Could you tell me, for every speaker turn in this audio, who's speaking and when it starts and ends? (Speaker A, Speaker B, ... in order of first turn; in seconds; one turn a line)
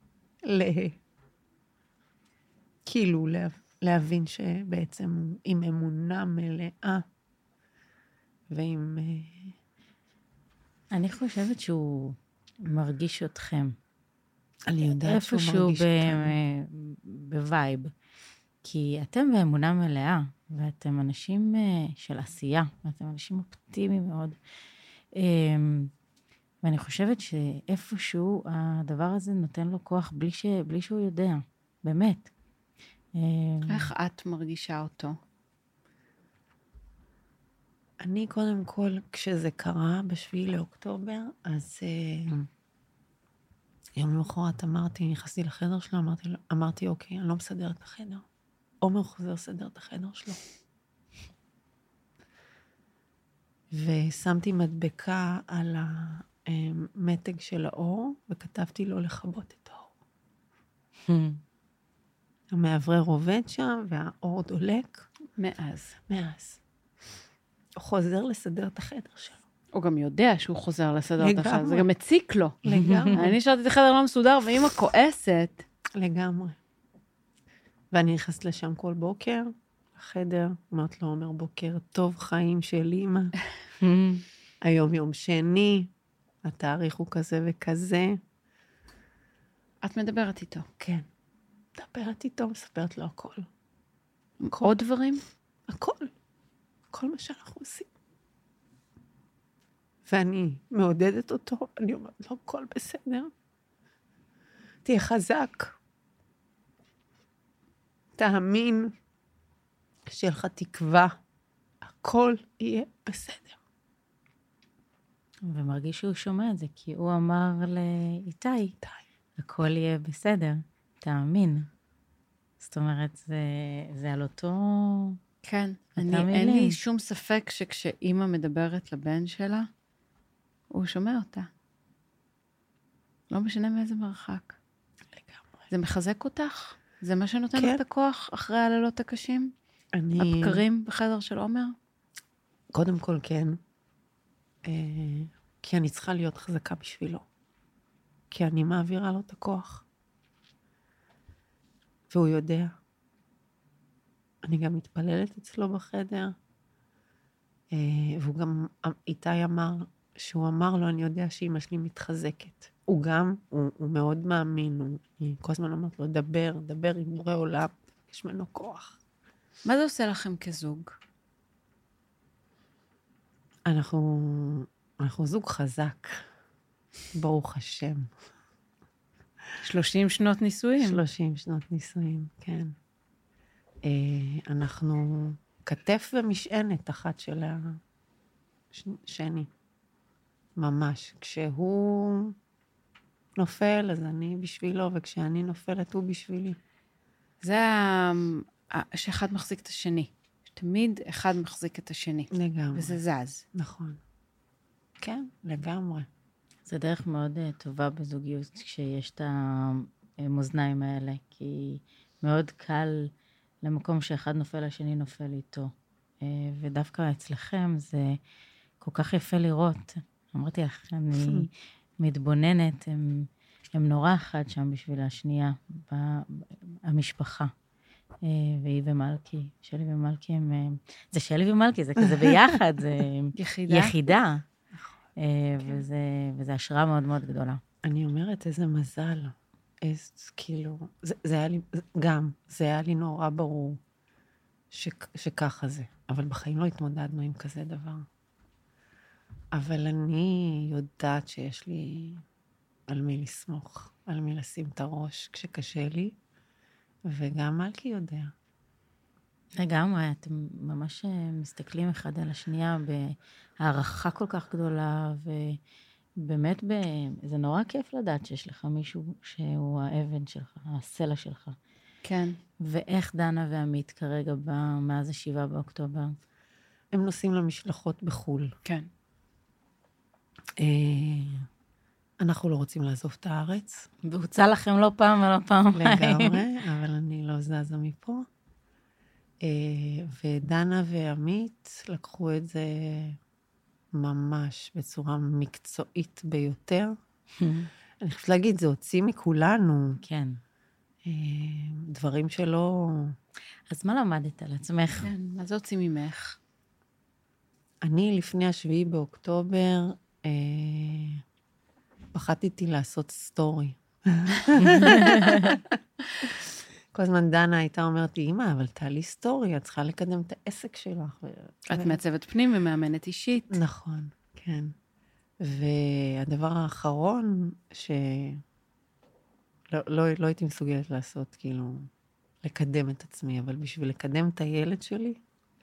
Speaker A: 0.4-1.0
Speaker A: 2.9-7.0
Speaker A: 8.5-9.5
Speaker B: 10.9-13.8
Speaker A: 14.7-16.3
Speaker B: 15.0-17.9
Speaker B: 18.6-24.4
Speaker B: 25.1-25.9
Speaker B: 26.6-32.3
Speaker B: 33.1-33.9
Speaker C: 33.7-35.1
Speaker A: 38.0-42.5
Speaker A: 44.0-48.2
Speaker A: 48.8-50.4
Speaker A: 53.7-59.9
Speaker B: 61.0-61.4
Speaker A: 62.5-65.1
Speaker C: 65.3-65.9
Speaker A: 66.1-66.6
Speaker A: 67.8-69.4
Speaker C: 69.7-72.6
Speaker A: 71.2-71.9
Speaker A: 72.6-73.3
Speaker B: 72.7-73.2
Speaker C: 73.1-75.6
Speaker A: 76.0-76.6
Speaker A: 77.9-83.3
Speaker B: 83.8-84.2
Speaker A: 84.6-85.9
Speaker A: 86.4-88.2
Speaker C: 89.8-90.7
Speaker A: 90.8-91.1
Speaker A: 91.7-93.5
Speaker C: 94.4-95.2
Speaker A: 95.7-96.1
Speaker A: 96.9-97.9
Speaker A: 100.0-103.3
Speaker A: 104.8-105.8
Speaker A: 108.2-108.9
Speaker A: 110.1-111.2
Speaker A: 111.8-113.6
Speaker B: 115.5-118.7
Speaker B: 119.4-121.7
Speaker B: 122.6-125.2
Speaker C: 125.4-129.7
Speaker B: 126.0-126.8
Speaker C: 130.7-131.5
Speaker C: 133.3-134.6
Speaker C: 135.7-139.5
Speaker A: 137.5-137.8
Speaker A: 139.9-140.6
Speaker C: 140.2-141.7
Speaker A: 142.7-143.6
Speaker A: 144.6-147.2
Speaker A: 148.3-149.8
Speaker A: 152.1-152.8
Speaker A: 154.4-156.3
Speaker A: 157.7-169.0
Speaker C: 169.6-170.9
Speaker A: 173.7-176.2
Speaker A: 177.1-178.1
Speaker C: 179.6-181.0
Speaker A: 180.8-182.7
Speaker A: 183.8-187.8
Speaker A: 188.7-189.5
Speaker A: 190.6-192.3
Speaker A: 193.3-196.6
Speaker C: 197.4-203.4
Speaker A: 202.3-203.0
Speaker A: 203.5-204.0
Speaker A: 205.0-206.1
Speaker B: 206.7-213.1
Speaker B: 213.6-218.2
Speaker B: 218.8-227.5
Speaker A: 221.2-221.5
Speaker B: 228.2-234.4
Speaker C: 233.3-233.9
Speaker B: 235.2-237.6
Speaker A: 237.8-243.8
Speaker A: 244.7-248.1
Speaker A: 249.5-252.2
Speaker A: 252.9-256.1
Speaker A: 257.1-258.3
Speaker B: 259.6-265.6
Speaker B: 266.2-271.6
Speaker C: 272.0-272.4
Speaker B: 272.6-276.1
Speaker A: 276.9-278.5
Speaker A: 280.6-281.5
Speaker A: 282.2-283.9
Speaker B: 284.0-286.4
Speaker A: 285.7-288.2
Speaker A: 289.4-293.2
Speaker A: 293.9-297.0
Speaker B: 297.4-297.7
Speaker A: 298.0-300.0
Speaker B: 300.0-300.4
Speaker A: 301.0-303.2
Speaker B: 303.7-305.1
Speaker C: 305.0-306.4
Speaker A: 307.8-311.2
Speaker A: 312.1-322.0
Speaker B: 314.8-315.5
Speaker C: 321.7-323.6
Speaker A: 323.5-324.7
Speaker A: 325.4-328.4
Speaker A: 329.7-331.9
Speaker A: 332.4-335.2